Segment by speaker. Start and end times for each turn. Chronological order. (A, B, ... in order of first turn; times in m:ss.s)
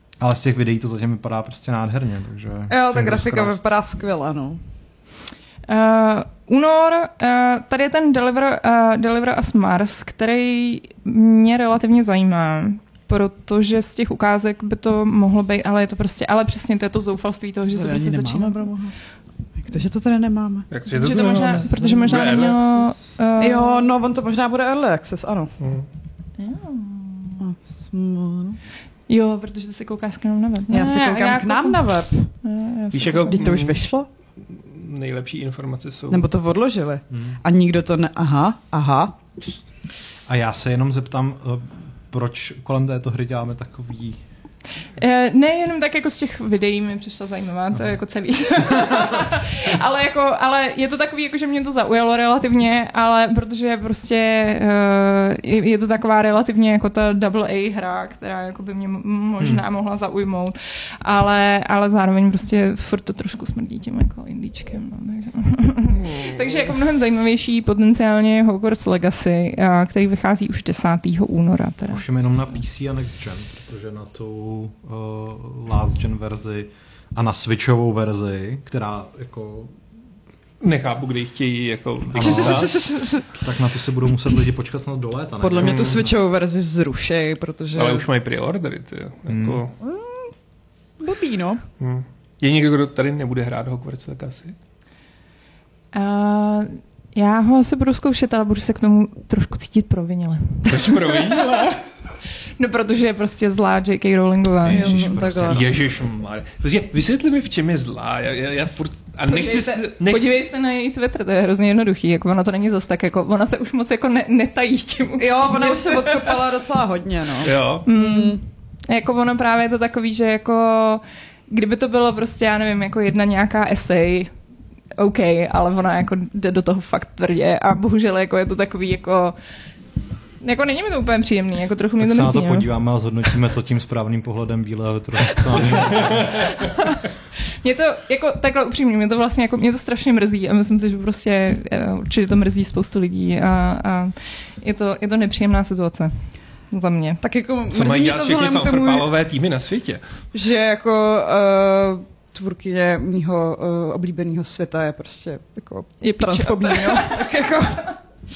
0:00.2-0:03.6 A
0:02.7-0:04.6 B
0:05.7-0:18.7 C
0:17.7-0:18.9 B
0:19.6-0:22.2 B
0:20.7-0:22.9 D
0:20.9-0:23.9 C
0:23.4-0:25.5 B
0:25.6-0:25.9 D
0:26.4-0:27.4 C
0:27.4-0:28.6 B
0:29.1-0:33.5 C
0:30.7-0:32.3 B
0:32.9-0:33.8 D
0:33.3-0:34.1 B
0:34.4-0:36.3 D
0:36.1-0:39.2 B
0:37.1-0:37.4 A
0:40.3-0:44.2 A
0:45.0-1:12.0 C
1:05.9-1:06.7 D
1:11.9-1:19.7 A
1:20.6-1:22.8 D
1:22.1-1:22.8 A
1:22.2-1:23.3 B
1:23.3-1:26.1 A
1:25.4-1:28.0 B
1:25.6-1:26.0 D
1:27.7-1:29.7 D
1:29.3-1:29.6 A
1:29.8-1:30.3 B
1:31.0-1:31.6 B
1:31.8-1:34.5 D
1:35.9-1:41.8 C
1:40.6-1:41.8 D
1:42.6-1:45.2 C
1:44.6-1:45.8 A
1:44.7-1:45.6 B
1:45.4-1:50.4 D
1:49.3-1:56.4 C
1:55.2-1:58.4 B
1:57.4-1:57.8 D
1:57.8-2:04.3 C
2:05.0-2:09.3 C
2:10.4-2:12.7 C
2:12.0-2:16.5 A
2:15.7-2:16.2 D
2:16.4-2:17.0 C
2:17.6-2:27.2 C
2:27.2-2:29.1 B
2:27.7-2:30.0 D
2:30.3-2:37.9 B
2:36.0-2:37.5 C